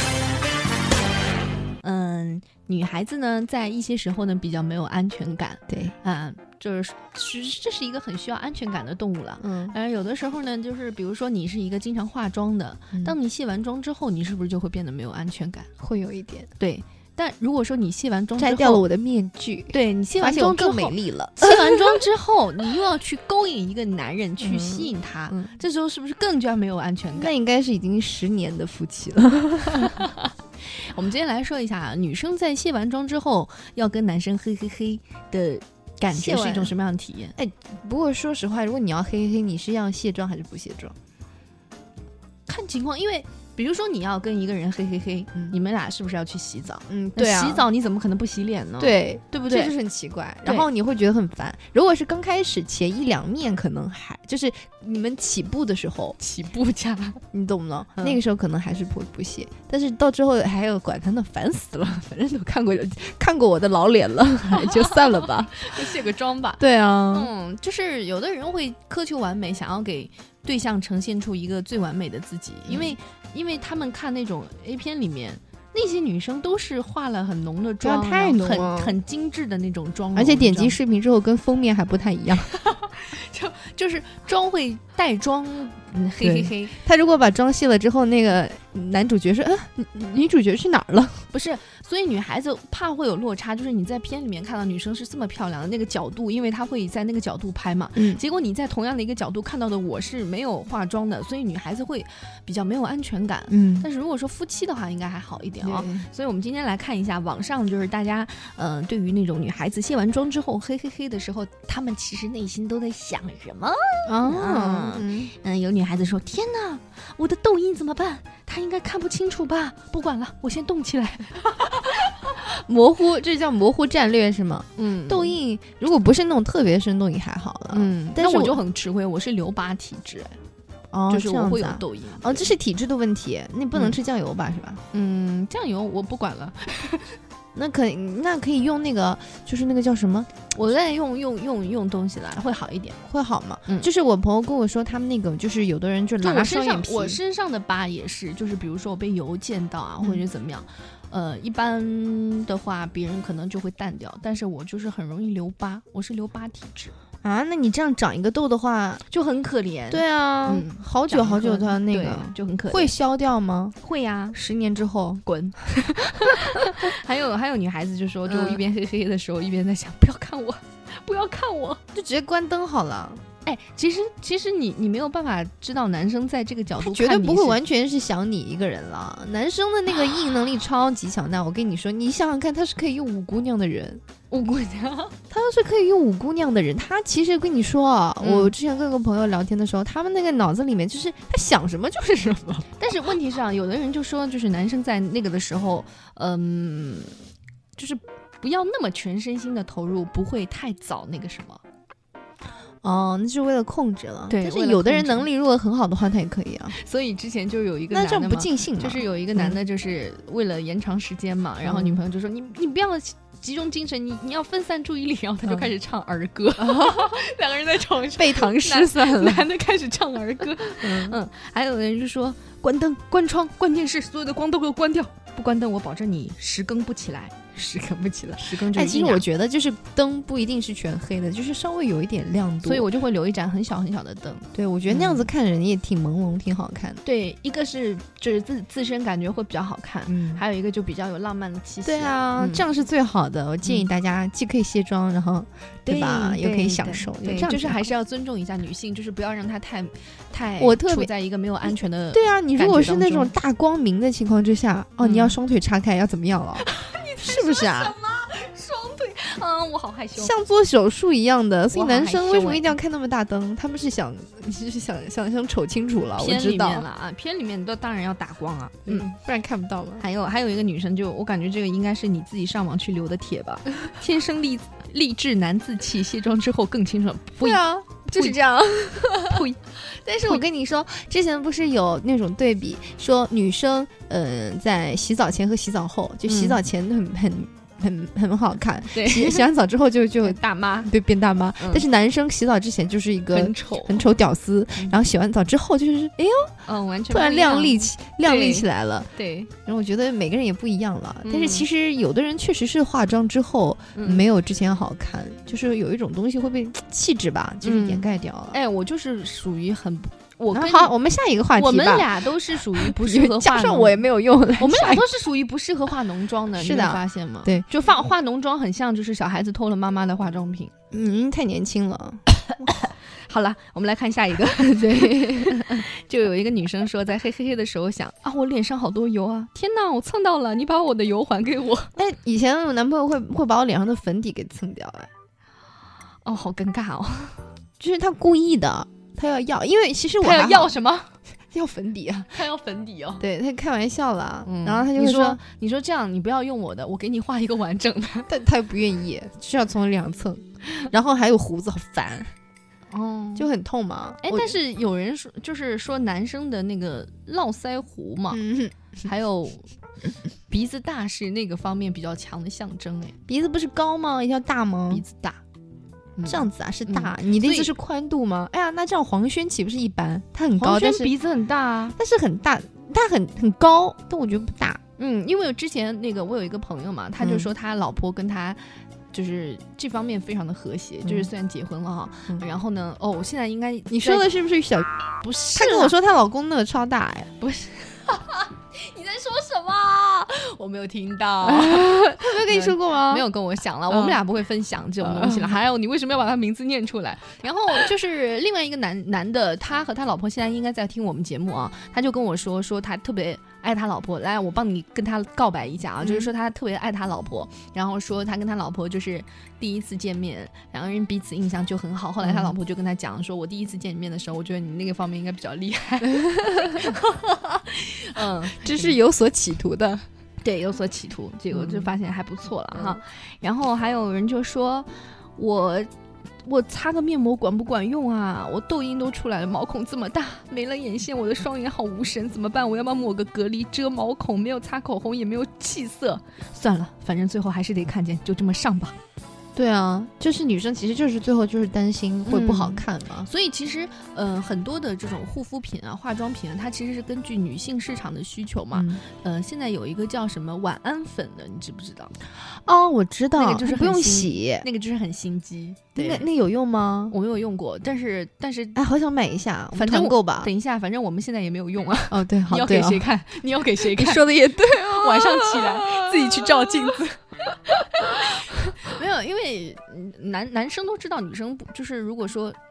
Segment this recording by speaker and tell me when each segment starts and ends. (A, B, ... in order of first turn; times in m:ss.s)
0:01.8-0:15.7 A
0:05.7-0:06.0 B
0:09.4-0:09.8 B
0:15.8-0:16.5 B
0:16.6-0:18.8 A
0:18.4-0:22.0 B
0:19.7-0:27.3 A
0:24.4-0:25.5 B
0:27.1-0:30.0 B
0:30.0-0:37.4 A
0:36.1-0:36.7 B
0:37.4-0:41.0 B
0:42.5-0:49.7 A
0:46.9-0:47.6 B
0:48.8-0:56.2 B
0:50.4-0:50.7 A
0:56.2-0:57.2 A
0:57.3-1:05.9 B
1:04.5-1:20.8 A
1:06.6-1:07.3 B
1:12.7-1:13.0 B
1:17.8-1:19.0 B
1:20.1-1:22.5 B
1:22.5-1:26.8 A
1:26.2-1:31.3 B
1:31.3-2:02.1 A
1:38.0-1:38.2 B
1:43.5-1:43.9 B
1:45.6-1:46.1 B
1:54.1-1:55.3 B
2:02.4-2:08.6 B
2:04.8-2:05.4 A
2:07.7-2:10.4 A
2:10.9-2:14.8 B
2:11.1-2:12.5 A
2:14.9-2:17.2 A
2:17.6-2:20.4 B
2:20.5-2:23.0 A
2:23.1-2:27.2 B
2:26.2-2:36.9 A
2:37.2-2:39.0 B
2:39.1-2:42.9 A
2:39.9-2:43.8 B
2:43.8-2:44.4 A
2:44.3-2:45.2 B
2:45.2-2:51.8 A
2:48.3-2:48.6 B
2:51.9-2:53.2 B
2:53.4-2:57.6 A
2:56.8-3:04.0 B
3:04.3-3:05.2 A
3:05.3-3:12.7 B
3:08.2-3:08.5 A
3:12.8-3:17.2 A
3:17.8-3:21.6 A
3:22.8-3:26.8 B
3:24.3-3:25.3 A
3:26.7-3:49.2 A
3:27.9-3:29.6 B
3:31.6-3:32.0 B
3:36.6-3:37.2 B
3:38.2-3:39.5 B
3:40.8-3:41.2 B
3:48.5-3:52.9 B
3:52.6-3:55.3 A
3:54.5-3:57.0 B
3:57.0-4:02.6 A
4:00.1-4:00.4 B
4:01.8-4:07.9 B
4:05.9-4:13.4 A
4:10.6-4:11.1 B
4:11.7-4:16.7 B
4:15.0-4:15.4 A
4:16.6-4:20.3 A
4:17.2-4:18.0 B
4:20.2-4:26.8 B
4:21.7-4:22.7 A
4:26.2-4:29.1 A
4:28.9-4:30.0 B
4:30.0-4:38.4 A
4:37.4-4:39.5 B
4:39.0-4:40.4 A
4:40.2-4:56.5 B
4:46.3-4:46.6 A
4:48.9-4:49.5 A
4:50.2-4:50.9 A
4:51.6-4:51.8 A
4:53.3-4:54.1 A
4:56.6-4:59.5 A
4:57.1-4:59.1 B
4:59.7-5:08.6 B
5:01.2-5:01.7 A
5:04.0-5:04.3 A
5:07.6-5:10.9 A
5:10.5-5:12.1 B
5:11.6-5:14.0 A
5:12.7-5:15.1 B
5:14.6-5:20.7 A
5:16.6-5:17.7 B
5:20.9-5:22.7 B
5:22.4-5:31.9 A
5:24.6-5:25.8 B
5:32.0-5:35.1 B
5:36.2-5:37.5 A
5:37.8-5:40.8 B
5:40.2-5:41.1 A
5:41.5-5:42.4 B
5:42.3-5:43.2 A
5:43.2-5:45.4 B
5:44.4-5:48.3 A
5:48.3-5:52.3 B
5:52.9-5:53.5 A
5:53.4-5:54.5 B
5:54.2-5:58.4 A
5:58.3-5:58.8 B
5:59.0-5:59.7 A
6:00.5-6:03.2 A
6:03.3-6:05.0 B
6:04.9-6:05.4 A
6:06.2-6:07.7 A
6:06.2-6:11.1 B
6:10.6-6:12.0 A
6:12.0-6:14.8 B
6:15.0-6:24.3 A
6:17.2-6:17.5 B
6:23.9-6:24.9 B
6:25.2-6:25.9 A
6:25.6-6:27.3 B
6:27.4-6:59.0 A
6:31.4-6:33.3 B
6:33.9-6:34.2 B
6:35.0-6:35.6 B
6:46.0-6:46.3 B
6:52.2-6:52.5 B
6:58.2-7:00.0 B
7:00.4-7:05.9 A
7:01.5-7:01.9 B
7:02.7-7:03.0 B
7:06.4-7:19.0 A
7:19.6-7:23.3 B
7:22.3-7:32.2 A
7:28.7-7:29.0 B
7:32.5-7:34.7 B
7:33.4-7:36.3 A
7:36.0-7:37.2 B
7:37.1-7:38.8 A
7:38.8-7:40.5 B
7:39.8-7:52.6 A
7:42.1-7:43.1 B
7:43.7-7:47.1 B